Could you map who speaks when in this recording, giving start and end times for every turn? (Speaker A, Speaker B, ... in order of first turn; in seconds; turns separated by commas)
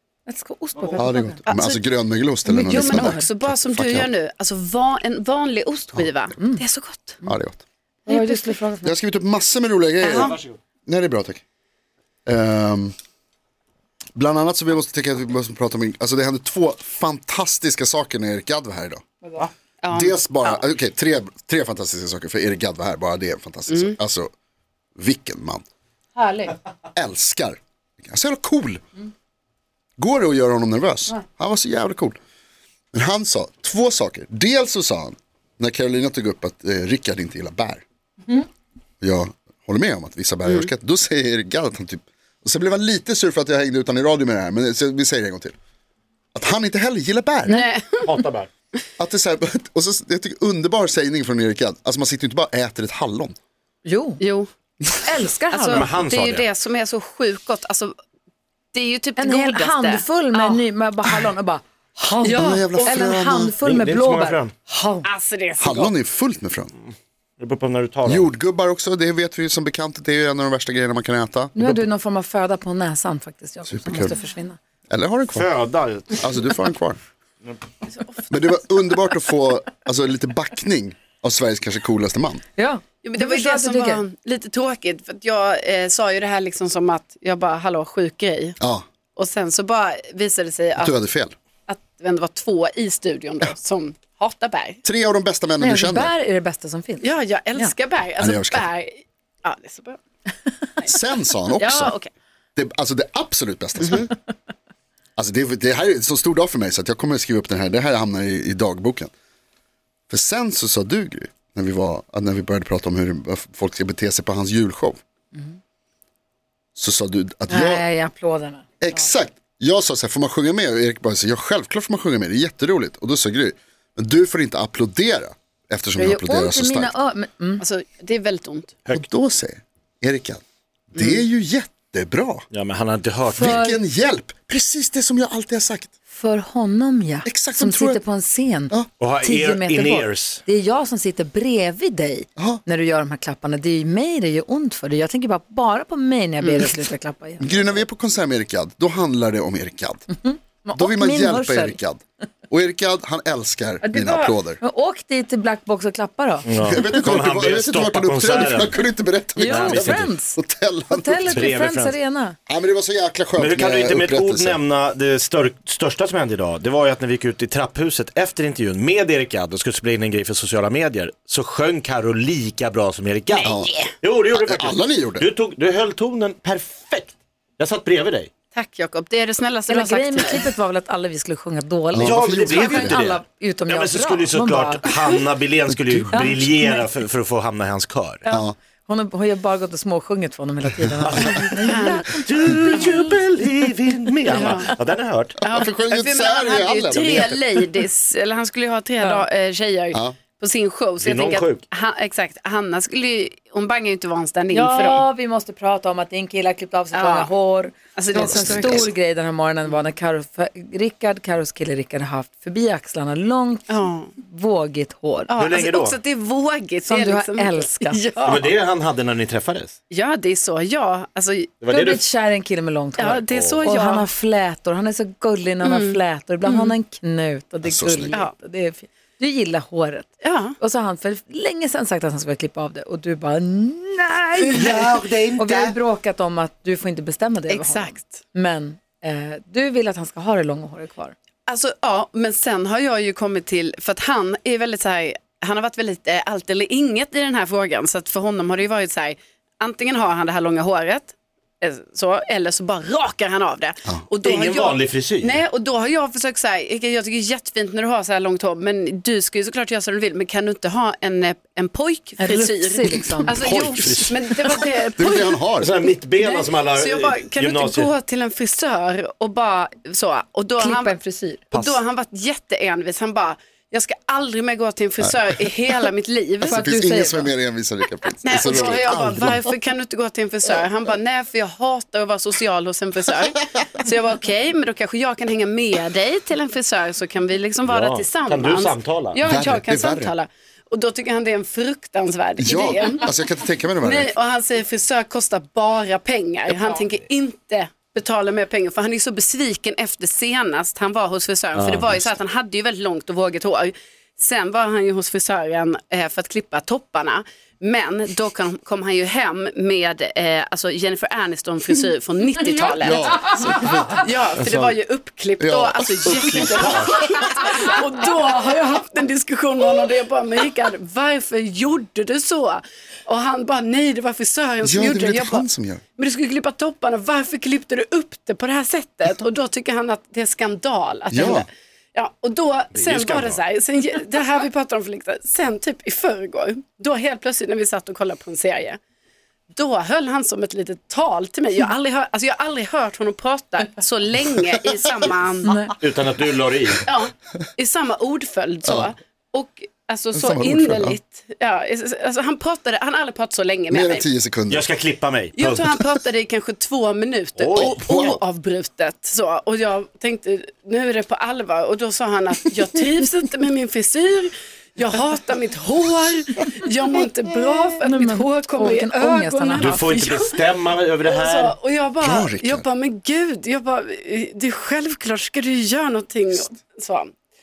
Speaker A: 0.3-1.5, Speaker B: 0.9-4.1, Speaker A: 2.5-3.3, Speaker C: 2.7-7.2, Speaker B: 7.3-7.6, Speaker A: 8.1-8.9, Speaker C: 8.1-8.4, Speaker B: 8.8-11.4, Speaker C: 10.0-10.4, Speaker D: 10.2-10.6, Speaker B: 12.3-12.9, Speaker B: 14.2-19.0, Speaker C: 19.8-20.6, Speaker B: 19.9-24.3, Speaker C: 23.7-24.0, Speaker B: 25.0-25.6, Speaker A: 26.1-26.6, Speaker B: 27.0-28.8, Speaker B: 30.0-32.2, Speaker B: 32.9-37.8, Speaker B: 39.0-45.5, Speaker B: 46.3-47.6, Speaker C: 47.5-48.1, Speaker D: 48.0-48.5, Speaker B: 49.0-53.4, Speaker A: 53.9-54.2, Speaker C: 54.2-54.5, Speaker A: 54.9-55.9, Speaker C: 55.5-58.0, Speaker D: 55.7-56.5, Speaker C: 58.7-60.6, Speaker A: 59.2-65.1, Speaker C: 62.2-63.0, Speaker B: 62.3-63.5, Speaker D: 63.6-64.5, Speaker C: 65.0-65.9, Speaker B: 65.6-66.7, Speaker D: 66.9-68.3, Speaker B: 68.0-71.8, Speaker A: 71.5-74.6, Speaker B: 73.7-74.1, Speaker B: 74.9-75.5, Speaker D: 75.3-76.5, Speaker B: 76.2-77.0, Speaker C: 77.9-78.3, Speaker B: 78.3-82.4, Speaker A: 82.6-84.0, Speaker C: 83.0-88.6, Speaker C: 89.2-91.0, Speaker B: 90.8-91.3, Speaker C: 91.7-94.8, Speaker B: 94.8-96.1, Speaker A: 95.6-97.7, Speaker C: 97.0-100.0, Speaker B: 98.2-98.7, Speaker B: 100.8-102.0, Speaker C: 101.6-102.1, Speaker B: 102.6-104.1, Speaker C: 103.8-104.1, Speaker B: 105.2-109.1, Speaker B: 110.1-115.0, Speaker B: 116.8-117.8, Speaker A: 117.5-119.0, Speaker B: 118.8-126.9, Speaker A: 126.0-127.6, Speaker C: 127.6-128.8, Speaker B: 128.9-130.4, Speaker B: 130.9-132.5, Speaker C: 131.0-131.2, Speaker D: 132.5-133.7, Speaker A: 133.3-133.8, Speaker B: 133.3-135.9, Speaker A: 136.1-147.8, Speaker B: 137.2-138.0, Speaker D: 139.0-140.4, Speaker C: 146.4-146.7, Speaker B: 147.4-150.1, Speaker A: 150.1-151.8, Speaker B: 150.8-154.6, Speaker A: 153.8-156.9, Speaker D: 156.4-158.8, Speaker B: 156.7-161.3, Speaker A: 159.4-160.4, Speaker D: 159.5-160.1, Speaker A: 160.9-162.4, Speaker D: 161.2-161.9, Speaker B: 162.5-164.6, Speaker D: 163.4-178.3, Speaker C: 173.3-173.9, Speaker B: 173.4-173.7, Speaker B: 174.3-175.3, Speaker C: 178.5-180.4, Speaker A: 179.7-185.1, Speaker B: 181.9-183.0, Speaker D: 182.0-188.3, Speaker A: 186.1-186.8, Speaker B: 188.3-188.6, Speaker A: 188.3-193.0, Speaker D: 191.0-195.5, Speaker C: 191.4-192.7, Speaker C: 194.3-194.7, Speaker C: 195.4-205.0, Speaker B: 195.5-197.4, Speaker D: 197.0-197.3, Speaker D: 201.0-201.6, Speaker A: 204.5-215.3, Speaker C: 206.9-207.3, Speaker C: 208.0-208.9, Speaker B: 208.2-208.9, Speaker C: 213.7-214.1, Speaker C: 215.3-218.5, Speaker D: 215.4-216.0, Speaker A: 216.9-218.0, Speaker D: 218.2-219.8, Speaker C: 219.9-221.6, Speaker D: 221.6-222.0, Speaker A: 221.7-241.2, Speaker C: 223.0-224.1, Speaker D: 223.0-223.6, Speaker C: 225.6-226.8, Speaker B: 227.6-228.2, Speaker C: 230.2-230.5, Speaker D: 234.5-235.8, Speaker C: 237.5-238.2, Speaker C: 241.5-265.4, Speaker D: 254.2-255.4, Speaker A: 262.2-263.4, Speaker B: 263.4-264.2, Speaker D: 263.4-264.2, Speaker B: 265.0-265.8, Speaker D: 265.6-267.9, Speaker C: 266.2-270.9, Speaker A: 270.6-271.4, Speaker D: 271.5-271.8, Speaker C: 271.5-276.6, Speaker B: 276.4-279.4, Speaker A: 276.5-277.3, Speaker C: 278.1-293.2, Speaker D: 278.6-279.1, Speaker D: 287.6-289.2, Speaker B: 289.3-290.1, Speaker B: 292.4-294.1, Speaker C: 293.8-325.4, Speaker D: 301.6-302.1, Speaker B: 312.8-314.5, Speaker B: 315.4-316.9, Speaker D: 316.4-317.0, Speaker B: 324.6-325.8, Speaker C: 326.0-338.8, Speaker B: 331.1-331.5, Speaker D: 332.7-333.4, Speaker C: 339.5-345.6, Speaker A: 345.4-345.8, Speaker D: 345.8-346.9, Speaker C: 346.9-354.1, Speaker B: 350.1-351.0, Speaker B: 353.7-354.7, Speaker D: 354.5-355.8, Speaker C: 355.4-370.4, Speaker D: 357.4-358.1, Speaker B: 357.6-358.2, Speaker A: 367.5-369.8, Speaker D: 369.6-371.6, Speaker C: 371.1-377.1, Speaker B: 372.0-372.7